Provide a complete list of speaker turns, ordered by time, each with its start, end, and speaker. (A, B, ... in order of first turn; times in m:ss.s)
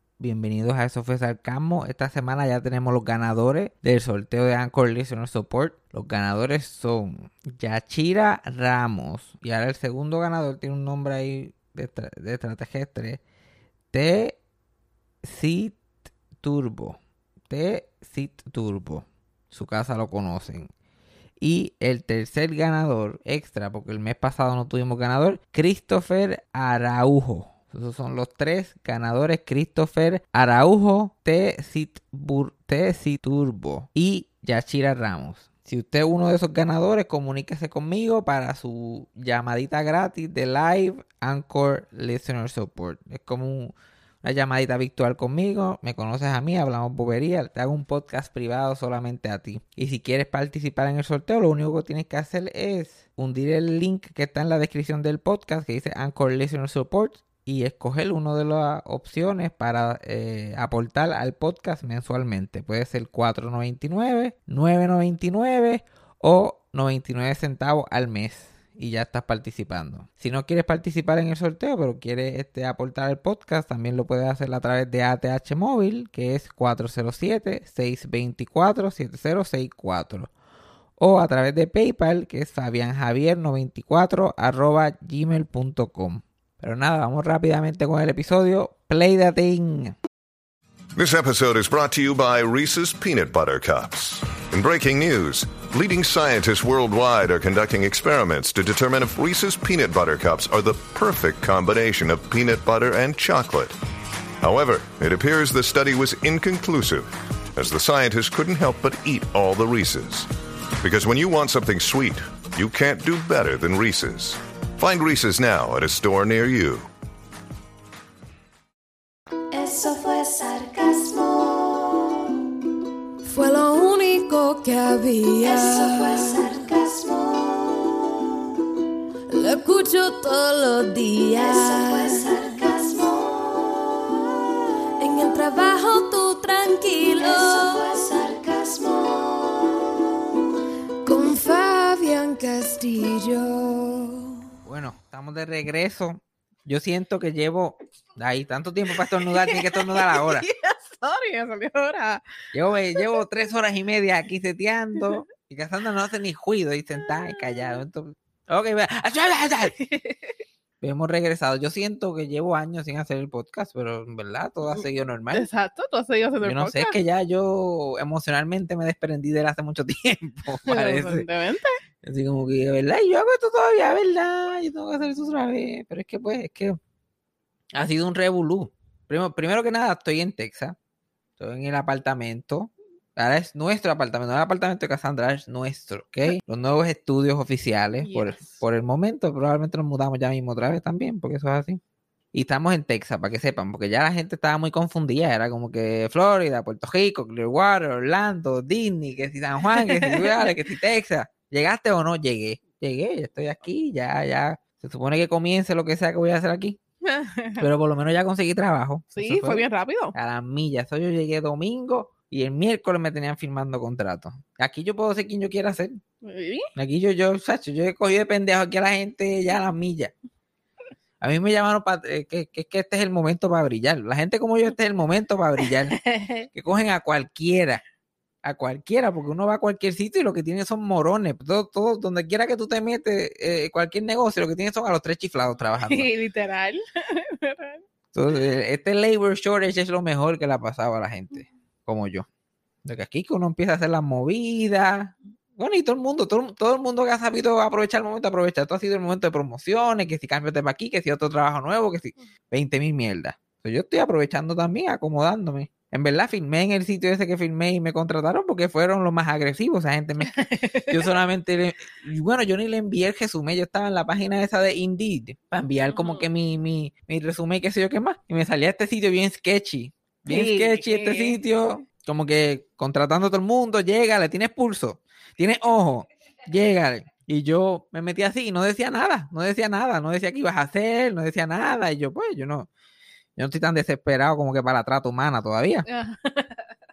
0:00.2-0:13.2 A
0:13.9-0:14.4 A
0:15.2-0:15.8 A
0:16.4-0:17.0 A
0:17.5-0:20.7 A
0:21.4-1:20.3 A
1:21.0-1:30.0 A
1:31.0-1:43.8 B
1:44.4-1:56.9 B
1:59.5-2:02.3 C
2:03.2-2:06.7 D
2:05.4-2:08.2 C
2:09.3-2:12.6 D
2:11.4-2:14.0 C
2:15.0-2:18.0 D
2:17.2-2:19.9 C
2:21.0-2:24.3 D
2:24.6-2:30.5 A
2:29.0-2:32.2 E
2:32.5-2:39.8 A
2:39.8-2:40.3 E
2:40.8-2:45.5 A
2:45.3-2:47.0 E
2:46.4-2:51.3 A
2:50.7-2:51.8 E
2:52.0-2:56.8 A
2:57.7-3:00.8 A
3:01.4-3:11.8 A
3:08.0-3:08.6 E
3:12.3-3:26.8 A
3:19.7-3:20.5 E
3:27.0-3:27.7 E
3:27.6-3:36.0 A
3:29.2-3:30.2 E
3:36.2-3:36.7 E
3:36.8-3:40.1 A
3:41.2-3:46.0 A
3:45.9-3:46.5 E
3:46.5-3:47.8 A
3:48.4-3:56.1 A
3:55.9-3:57.8 E
3:58.1-4:02.3 A
4:02.8-4:20.4 A
4:20.3-4:20.9 E
4:20.9-4:42.7 A
4:25.9-4:26.2 E
4:30.3-4:31.4 E
4:43.4-4:45.9 A
4:45.9-4:46.7 E